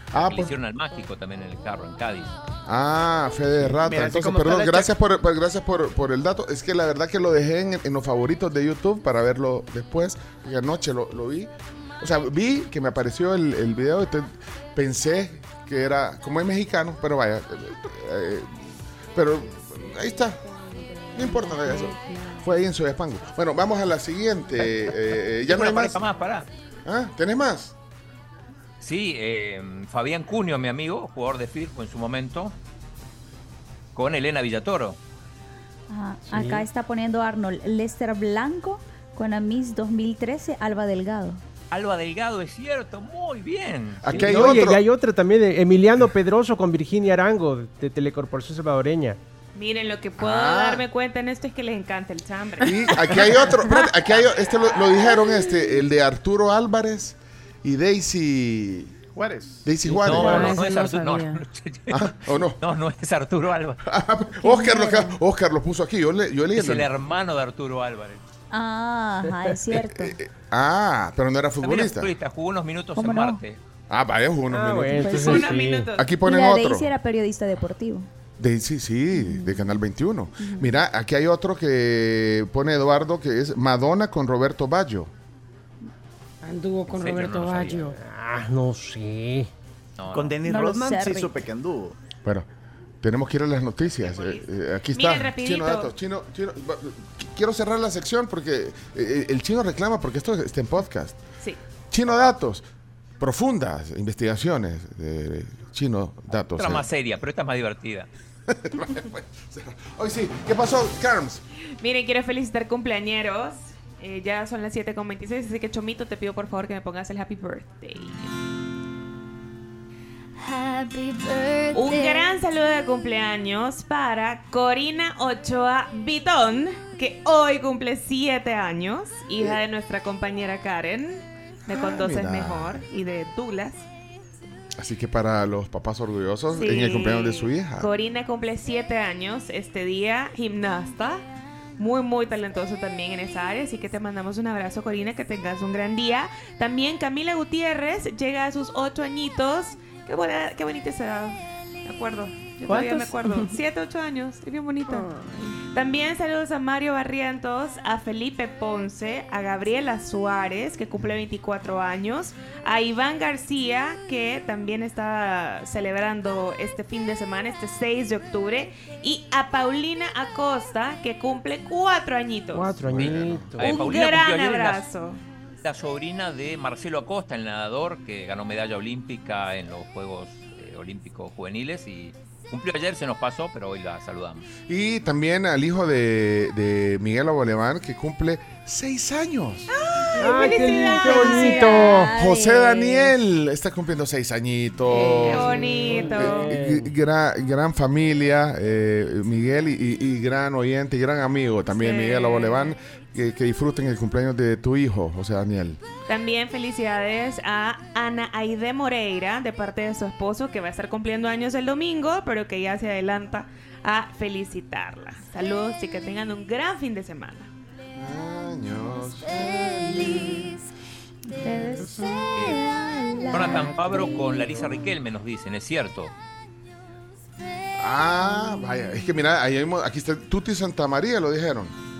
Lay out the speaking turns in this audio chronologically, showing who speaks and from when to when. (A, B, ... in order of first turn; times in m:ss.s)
0:00.1-0:00.6 A
0:00.2-0:02.4 B
0:02.7-0:18.5 A
0:03.6-0:04.9 C
0:19.1-0:20.4 A
0:21.1-0:26.0 A
0:21.2-0:22.4 D
0:25.4-0:26.5 B
0:26.8-0:27.7 A
0:28.8-0:32.6 B
0:34.0-0:35.0 B
0:35.9-0:41.4 E
0:36.3-0:36.7 F
0:41.7-0:44.4 B
0:44.0-0:44.8 A
0:44.1-0:49.2 F
0:49.6-0:53.4 G
0:50.2-0:50.9 A
0:52.6-0:59.0 A
0:59.1-1:00.0 C
0:59.6-1:00.6 A
0:59.9-1:03.8 B
1:00.1-1:01.4 D
1:01.9-1:02.6 A
1:03.9-1:06.9 A
1:04.4-1:05.2 E
1:06.6-1:08.2 B
1:08.5-1:10.2 E
1:09.7-1:12.1 A
1:11.6-1:13.6 B
1:13.0-1:13.4 E
1:13.9-1:15.4 A
1:14.5-1:15.9 F
1:15.0-1:15.5 E
1:15.1-1:16.1 G
1:16.0-1:16.9 A
1:16.2-1:18.1 E
1:18.4-1:25.1 A
1:19.1-1:19.8 E
1:20.4-1:20.8 E
1:26.4-1:28.0 D
1:26.9-1:27.9 B
1:28.0-1:29.5 F
1:30.0-1:30.4 B
1:30.1-1:32.0 C
1:30.4-1:31.4 E
1:33.0-1:41.2 A
1:33.9-1:35.9 G
1:41.9-1:42.6 A
1:43.2-1:46.9 A
1:46.5-1:48.1 B
1:48.5-1:51.4 A
1:51.8-1:58.3 G
2:00.4-2:02.4 E
2:01.7-2:13.8 G
2:11.9-2:12.8 A
2:14.8-2:17.9 A
2:16.5-2:21.2 G
2:21.8-2:35.1 G
2:32.7-2:33.6 D
2:34.9-2:35.6 D
2:35.7-2:52.8 G
2:52.5-2:53.7 F
2:52.8-2:53.5 A
2:53.0-2:54.9 B
2:53.6-2:55.2 G
2:55.6-3:04.5 B
3:04.7-3:09.7 A
3:09.7-3:11.7 G
3:10.2-3:12.1 F
3:10.3-3:13.1 E
3:12.2-3:25.8 A
3:14.9-3:16.9 F
3:15.3-3:16.5 G
3:21.7-3:22.7 G
3:26.1-3:37.5 G
3:38.0-3:40.6 A
3:40.0-3:40.6 E
3:41.3-3:44.2 E
3:42.4-3:42.6 B
3:43.3-3:46.1 B
3:47.8-3:51.8 A